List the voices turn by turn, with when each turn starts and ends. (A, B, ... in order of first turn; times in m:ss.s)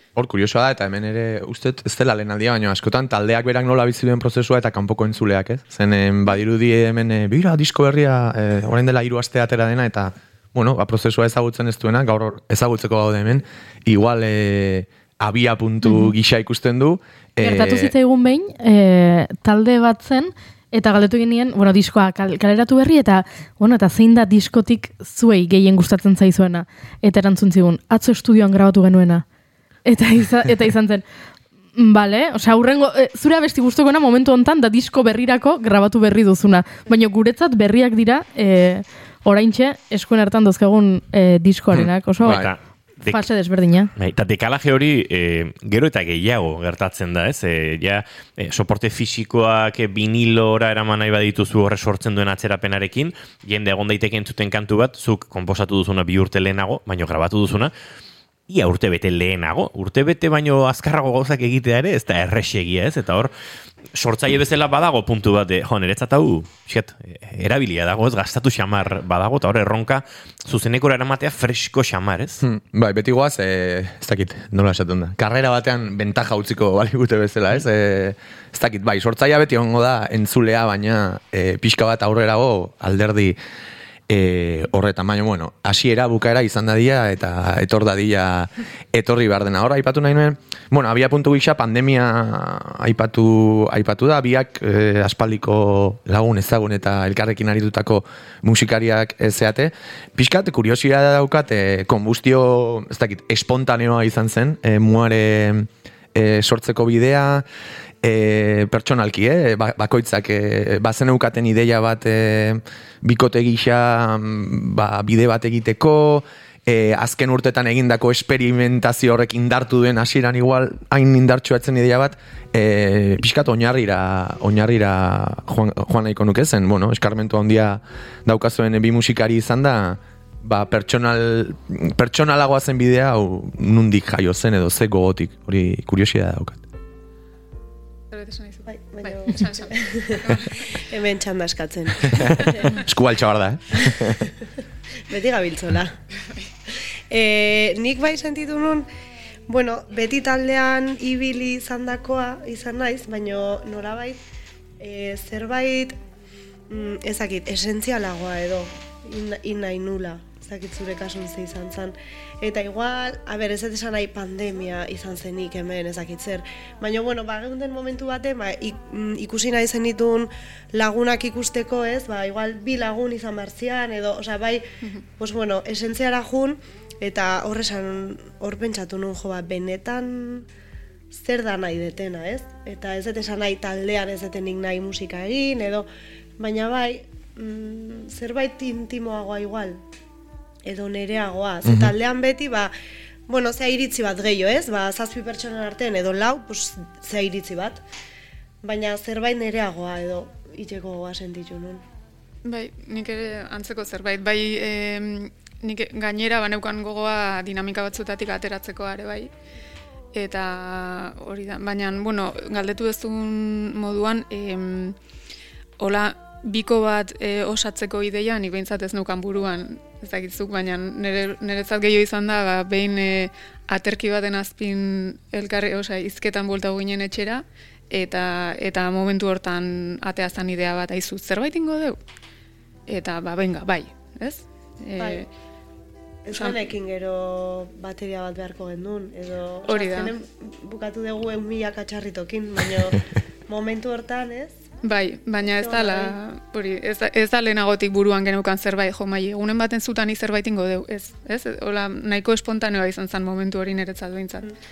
0:00.2-0:17.9 A
0:17.4-0:29.2 B
0:29.8-0:31.0 B
0:31.7-0:42.5 B
0:41.7-0:42.5 A
0:42.2-0:43.2 C
0:43.0-0:43.9 B
0:43.9-0:57.7 C
0:58.5-1:03.3 C
1:03.9-1:12.4 C
1:12.4-1:23.4 A
1:24.1-1:47.4 A
1:48.0-2:16.6 A
2:18.1-2:20.7 D
2:18.7-2:22.8 E
2:22.1-2:24.3 A
2:25.1-2:26.0 E
2:26.7-2:28.9 E
2:29.5-2:34.2 E
2:34.8-2:36.0 E
2:36.7-2:54.6 E
2:55.2-3:00.4 E
3:01.1-3:05.9 E
3:06.4-3:09.8 E
3:10.6-3:12.7 E
3:11.6-3:11.9 A
3:13.3-3:17.8 E
3:18.6-3:21.8 E
3:22.4-3:29.3 D
3:30.1-3:35.0 D
3:35.8-3:52.0 D
3:52.9-3:55.3 D
3:55.0-3:55.2 E
3:56.2-4:04.6 E
3:56.3-3:56.6 D
3:59.7-4:00.1 D
4:04.8-4:14.5 D
4:05.4-4:06.2 E